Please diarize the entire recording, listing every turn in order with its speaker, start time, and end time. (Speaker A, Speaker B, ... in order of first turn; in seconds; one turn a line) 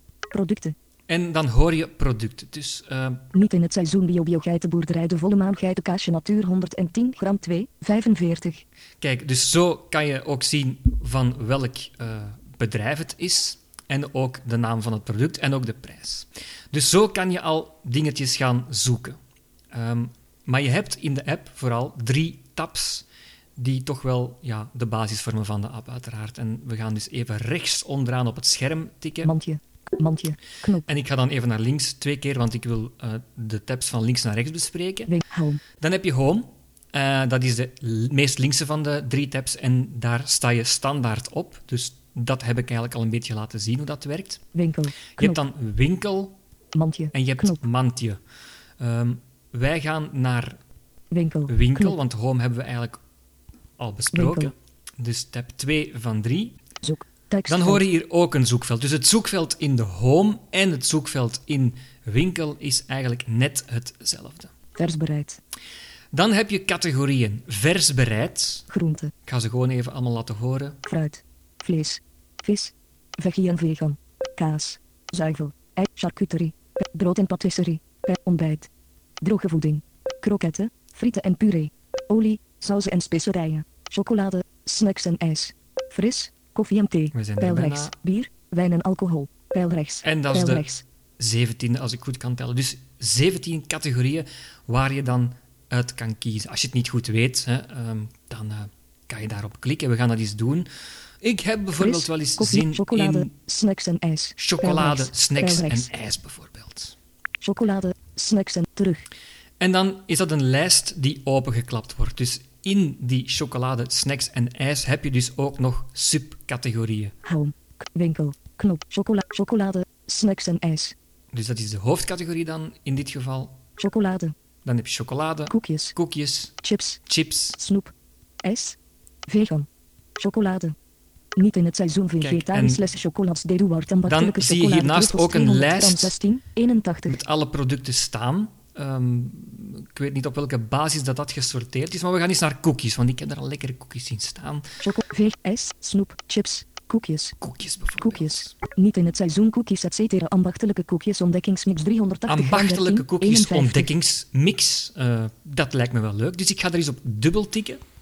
Speaker A: 0.3-0.7
Speaker B: 1.1-3.2
Speaker A: 3.3-8.6
Speaker B: 9.0-19.2
Speaker B: 19.7-23.0
Speaker B: 23.6-29.3
Speaker A: 29.2-30.9
Speaker B: 30.9-35.1
Speaker A: 35.1-35.6
Speaker B: 35.8-44.4
Speaker A: 44.5-45.4
Speaker B: 45.1-46.3
Speaker A: 46.7-47.6
Speaker B: 47.1-48.2
Speaker B: 48.8-50.6
Speaker A: 51.1-52.0
Speaker B: 51.5-53.0
Speaker B: 53.8-56.6
Speaker A: 54.1-54.5
Speaker A: 56.8-57.8
Speaker B: 57.5-64.5
Speaker A: 64.8-65.4
Speaker B: 66.1-68.7
Speaker A: 68.7-69.1
Speaker B: 69.3-70.8
Speaker A: 70.8-78.7
Speaker A: 79.2-90.8
Speaker B: 87.1-87.9
Speaker B: 90.0-90.6
Speaker B: 91.2-100.7
Speaker B: 101.2-103.3
Speaker A: 101.8-105.9
Speaker B: 104.4-106.9
Speaker A: 107.4-109.0
Speaker B: 109.6-117.1
Speaker A: 117.2-120.9
Speaker B: 121.3-123.6
Speaker A: 123.8-124.3
Speaker B: 124.6-127.6
Speaker A: 125.5-126.0
Speaker A: 126.6-127.0
Speaker A: 127.6-128.8
Speaker A: 129.3-130.7
Speaker A: 131.3-137.2
Speaker B: 132.2-132.8
Speaker B: 134.1-136.1
Speaker B: 137.1-144.7
Speaker A: 144.8-147.4
Speaker B: 147.4-148.5
Speaker A: 148.0-153.9
Speaker B: 152.3-157.8